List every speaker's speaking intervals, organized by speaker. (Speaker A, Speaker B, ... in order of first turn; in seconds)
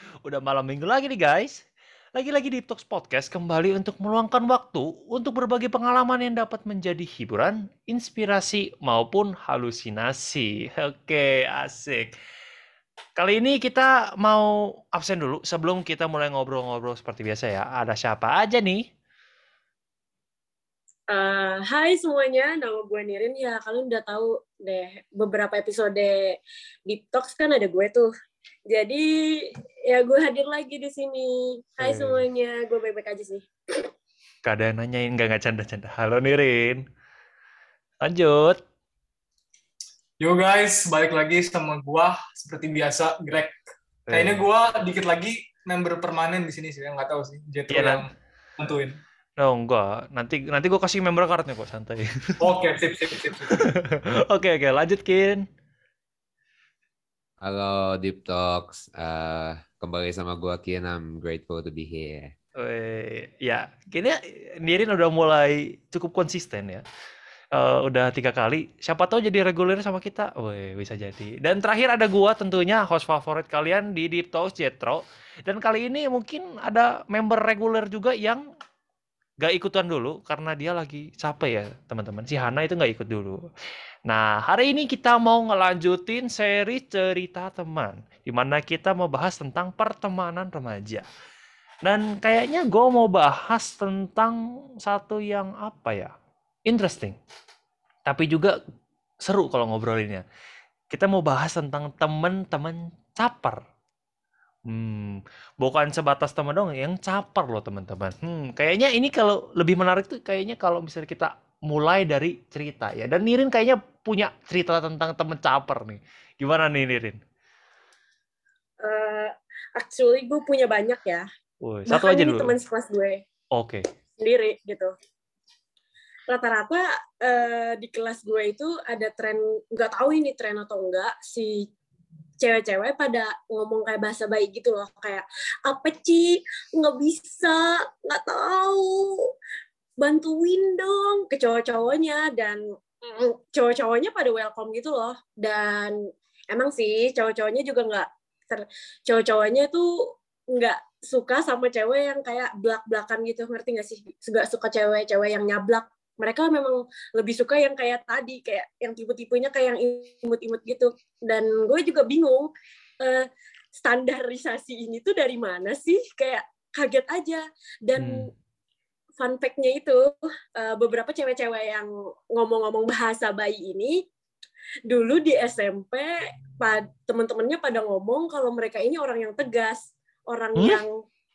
Speaker A: 0.2-1.6, 2.2-12.1, 13.2-18.9, 31.8-32.2, 34.5-36.8, 38.0-38.6, 44.1-44.4, 47.7-48.0, 49.4-52.1, 53.5-55.4, 62.6-66.8, 67.5-78.4, 79.4-83.4, 84.1-91.1, 91.8-96.1, 96.7-97.2, 98.1-98.5, 99.3-100.2, 100.9-103.6, 104.7-117.2, 121.6-122.6, 123.5-123.8, 168.0-168.3, 180.6-180.8
Speaker B: 21.1-28.1, 28.7-33.8, 118.8-121.3, 121.9-123.2, 124.2-124.9, 126.3-131.7, 132.4-139.1, 140.0-168.3, 169.2-174.0, 174.9-180.9
Speaker C: 40.2-43.5, 44.1-48.1, 48.6-49.0, 52.4-53.7
Speaker D: 57.4-62.3